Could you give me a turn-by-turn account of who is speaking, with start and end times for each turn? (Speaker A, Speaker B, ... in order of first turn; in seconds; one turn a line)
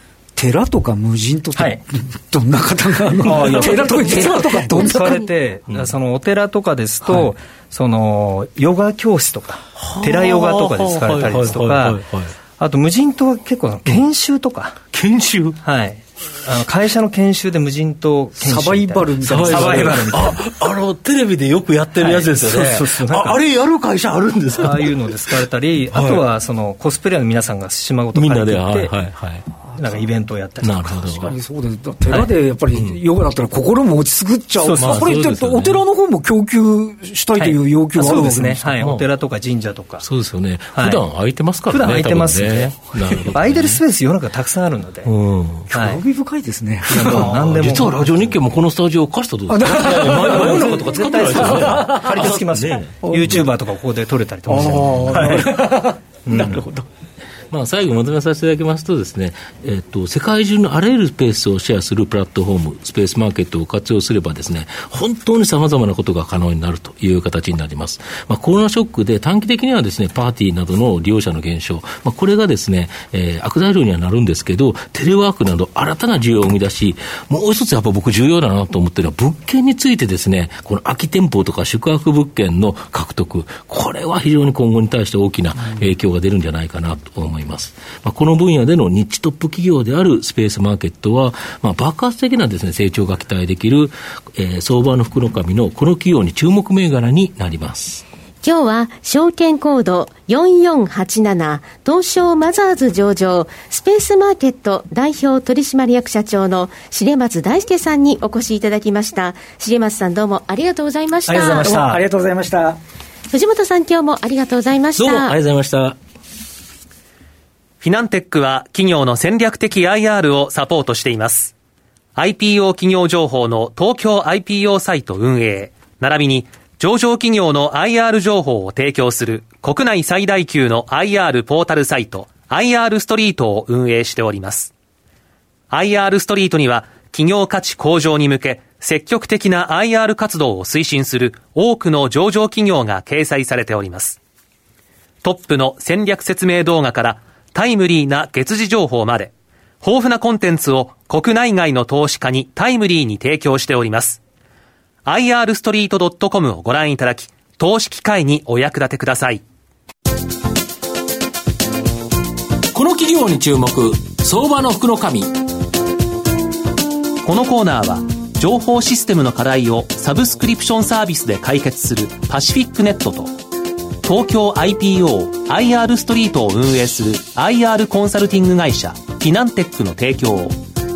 Speaker A: 0.4-5.2
Speaker B: 1.6-1.8
Speaker B: 3.2-12.0
Speaker C: 3.3-4.6
Speaker C: 9.8-12.3
Speaker B: 12.6-14.8
Speaker C: 14.9-15.6
Speaker B: 15.6-20.4
Speaker A: 18.4-20.2
Speaker C: 19.2-26.2
Speaker B: 22.0-23.4
Speaker B: 24.6-28.9
Speaker C: 28.1-29.5
Speaker B: 29.8-31.3
Speaker C: 30.6-31.3
Speaker A: 31.2-38.8
Speaker C: 32.7-33.0
Speaker B: 34.6-35.1
Speaker C: 34.8-35.9
Speaker B: 37.4-40.1
Speaker C: 38.8-39.1
Speaker C: 40.0-43.8
Speaker B: 40.7-41.0
Speaker B: 41.7-42.8
Speaker B: 43.3-45.1
Speaker C: 45.0-45.7
Speaker B: 45.7-46.0
Speaker A: 45.7-47.4
Speaker B: 46.9-48.0
Speaker C: 46.9-53.4
Speaker A: 49.5-52.3
Speaker B: 50.2-55.6
Speaker A: 53.0-53.5
Speaker A: 54.5-56.9
Speaker B: 56.2-56.7
Speaker C: 57.5-98.0
Speaker D: 98.4-111.7
Speaker B: 111.3-112.0
Speaker A: 111.3-112.8
Speaker D: 113.3-115.3
Speaker C: 115.0-116.0
Speaker E: 117.8-121.5
Speaker E: 122.2-134.7
Speaker E: 135.7-144.2
Speaker E: 145.2-154.2
Speaker E: 155.1-159.4
Speaker F: 162.7-165.4
Speaker E: 167.2-173.3
Speaker E: 174.0-180.6